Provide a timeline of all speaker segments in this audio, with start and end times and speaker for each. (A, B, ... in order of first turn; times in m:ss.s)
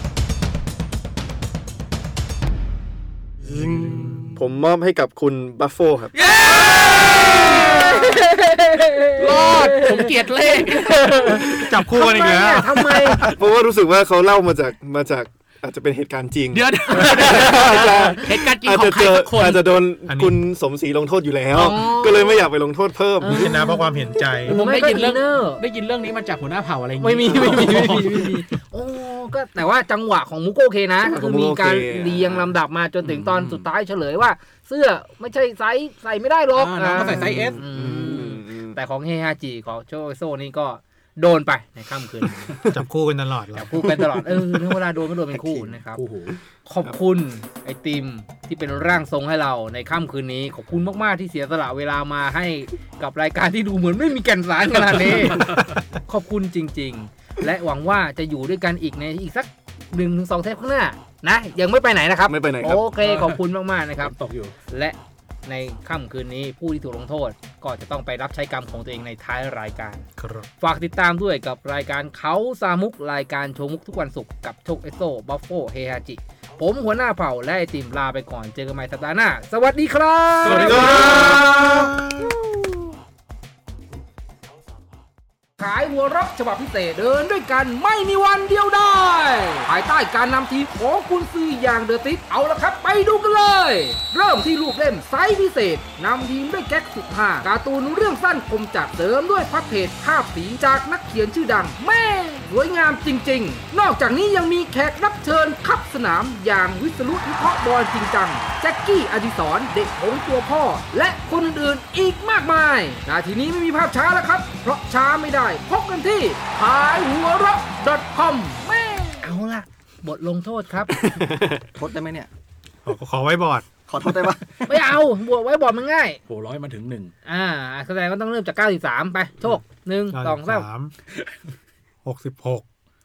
0:03.5-0:04.3 A
0:04.4-0:06.1 B
0:06.3-0:10.1 C
0:06.4-0:08.1 D
0:09.2-0:11.0 D
0:10.7-0:13.3 C
0:11.3-0:11.6 B
0:11.6-0:12.9 E
0:13.2-0:23.6 B
0:16.5-0:19.6 D
0:16.9-0:18.1 C
0:20.1-0:20.4 E
0:21.5-0:22.5 C
0:23.2-0:23.9 C
0:23.3-0:24.6 E
0:24.4-0:28.3 D
0:24.4-0:25.6 C
0:27.0-0:42.6 C
0:31.0-0:32.5 B
0:33.0-0:33.7 D
0:36.5-0:37.6 D
0:37.0-0:38.8 B
0:42.5-0:42.8 B
0:42.7-0:43.7 E
0:43.5-0:46.0 C
0:43.8-0:44.7 B
0:45.3-0:45.8 A
0:45.9-0:46.4 D
0:46.6-1:04.1 C
0:55.0-0:55.7 D
1:02.3-1:02.8 B
1:03.0-1:03.4 D
1:04.0-1:04.5 D
1:04.7-1:10.1 C
1:10.2-1:10.5 E
1:10.6-1:21.8 C
1:20.4-1:21.6 D
1:20.5-1:22.7 B
1:20.8-1:21.9 E
1:25.6-2:01.2 C
2:01.0-2:01.6 B
2:01.6-2:02.3 A
2:02.8-2:03.7 E
2:03.9-2:04.8 A
2:04.7-2:06.2 C
2:06.3-2:07.1 D
2:07.2-2:10.7 C
2:10.1-2:10.9 E
2:12.0-2:12.6 E